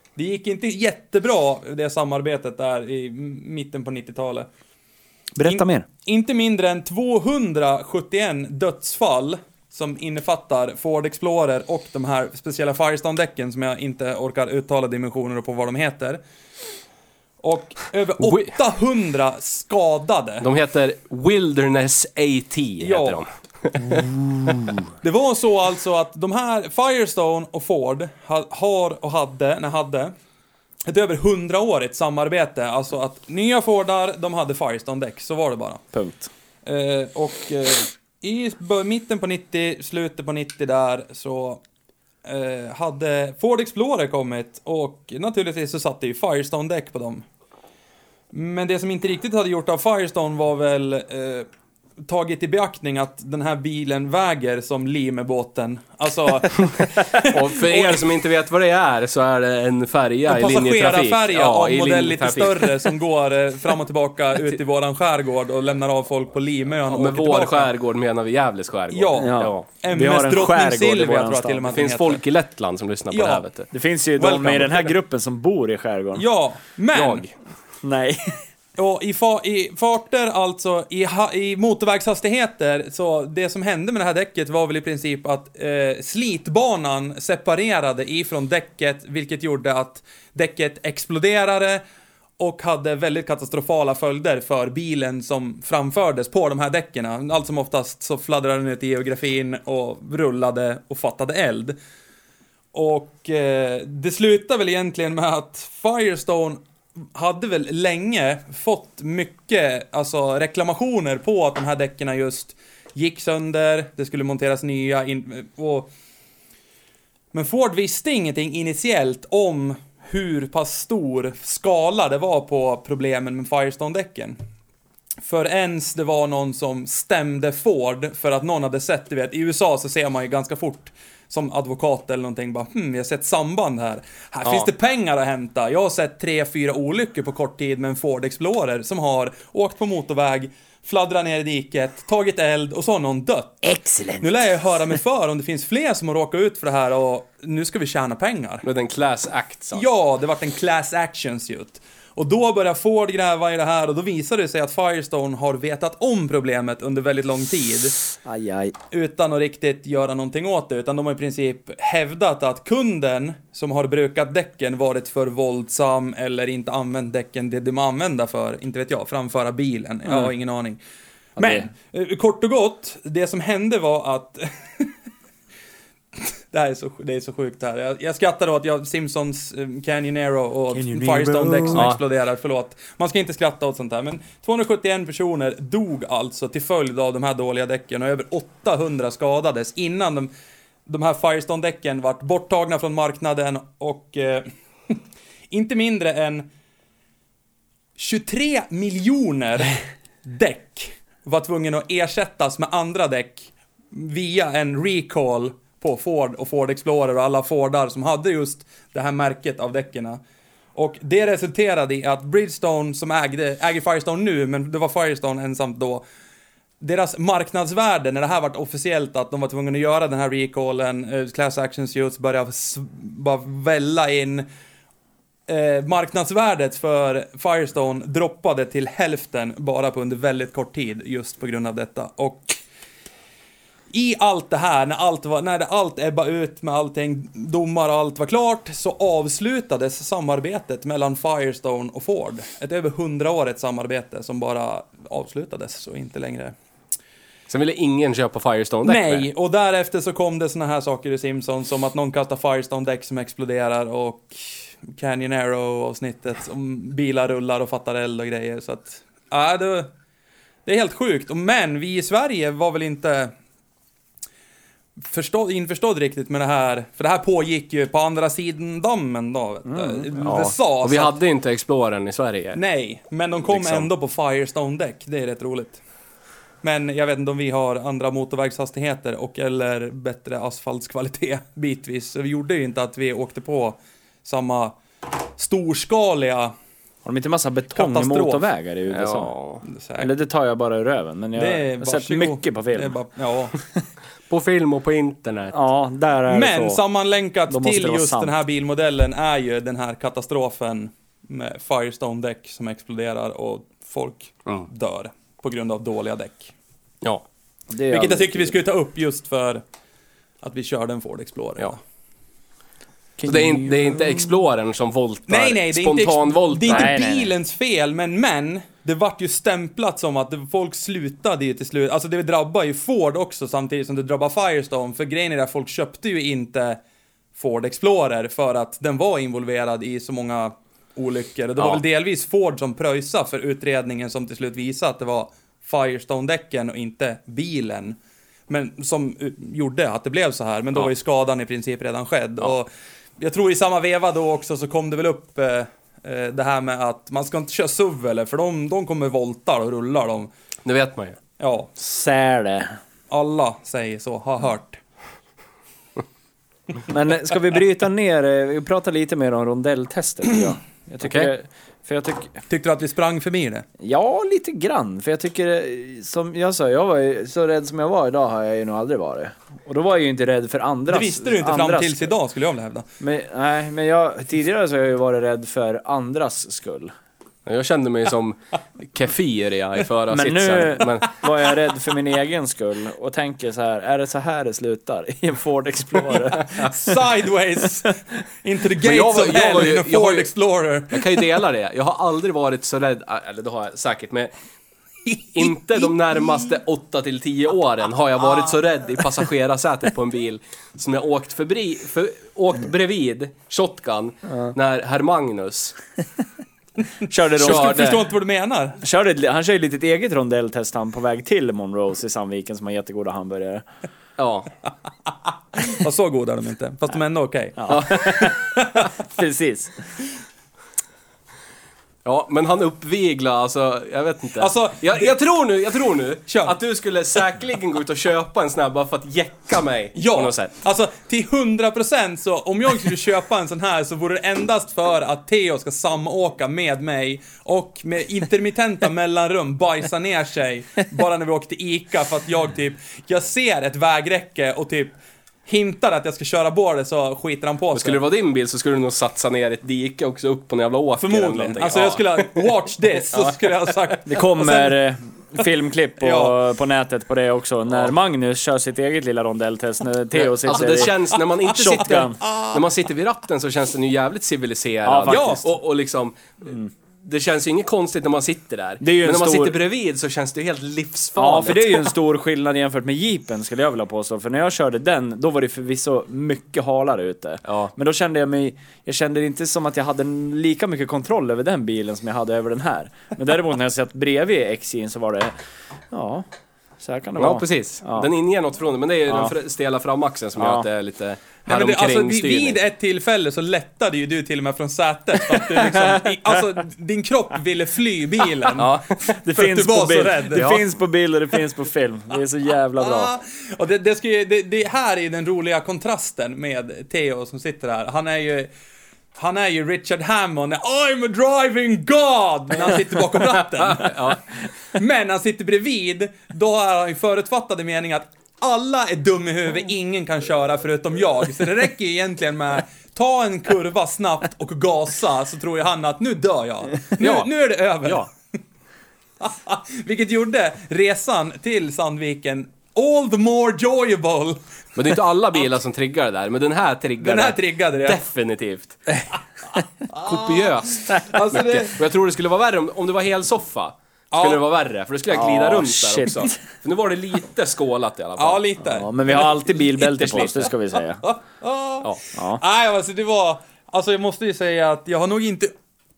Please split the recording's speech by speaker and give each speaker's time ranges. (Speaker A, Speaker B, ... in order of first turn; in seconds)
Speaker A: 0.2-4.5, 5.5-16.2, 17.4-20.5, 22.8-23.2, 23.8-30.1, 30.9-35.8, 36.6-41.6, 42.2-47.2, 48.3-51.5, 52.0-58.0, 60.3-67.7, 68.9-72.2, 73.1-73.5, 74.2-75.0, 76.2-77.3, 78.8-91.8, 92.4-101.8, 102.7-106.6, 107.2-115.9, 117.3-124.4, 125.2-143.6, 144.2-148.7, 149.7-158.0, 158.9-170.8, 171.4-174.9, 176.2-190.3, 190.9-195.0, 195.5-196.5, 198.0-210.2, 210.8-216.0, 216.8-224.5, 225.5-232.6, 233.9-246.6, 248.9-259.9, 260.7-263.3, 265.1-271.1, 272.6-275.8, 276.6-284.8, 285.4-286.5, 287.7-288.5, 289.7-290.1, 291.4-293.6, 296.3-306.5, 307.9-309.6, 310.4-311.8, 315.3-326.8, 327.4-350.3, 351.4-351.7, 353.1-354.8, 362.5-363.6, 370.9-372.9, 386.4-391.2, 395.1-395.6, 407.4-408.8, 415.6-418.9, 424.4-425.1, 426.3-426.6, 429.9-448.0, 451.0-454.8, 456.0-456.4, 461.8-462.6, 465.1-465.4, 491.5-500.6, 502.8-508.5, 509.1-514.2, 514.7-528.1, 529.2-534.4, 537.0-538.0, 539.9-541.8, 544.1-544.4, 548.2-548.9, 551.0-555.5
Speaker B: 5.3-5.9, 35.9-36.3, 69.2-71.8, 73.7-76.2, 77.8-78.4, 143.6-144.3, 158.2-158.7, 180.7-181.9, 269.7-270.0, 287.0-289.3, 290.0-293.0, 295.5-296.8, 297.5-298.4, 307.7-308.6, 313.2-314.0, 316.7-317.3, 351.8-352.7, 356.9-362.4, 363.8-372.1, 373.0-376.9, 380.1-387.0, 407.1-408.0, 408.8-413.6, 417.6-418.4, 419.0-419.8, 454.1-462.2, 464.9-465.5, 468.8-469.6, 471.2-485.3, 485.9-486.3, 486.8-488.1, 490.4-490.7, 495.3-496.2, 499.2-503.1, 545.1-546.3, 548.6-551.0, 552.1-552.4
Speaker C: 18.2-18.5, 20.4-24.1, 57.1-62.9, 66.9-69.7, 71.7-73.7, 76.9-77.3, 148.6-149.8, 181.8-182.0, 247.5-249.3, 270.2-272.6, 273.5-273.9, 288.9-289.6, 294.3-295.6, 313.2-316.9, 350.6-351.2, 361.0-361.3, 377.5-381.3, 388.8-390.3, 390.9-394.3, 395.3-405.8, 407.3-408.1, 414.2-414.5, 417.7-418.3, 422.1-430.5, 447.7-452.3, 453.1-453.8, 460.1-471.9, 477.4-477.7, 487.2-492.6, 498.6-499.1, 500.3-500.6, 513.5-514.2, 527.0-527.3, 534.8-538.8, 540.0-548.4, 549.2-550.5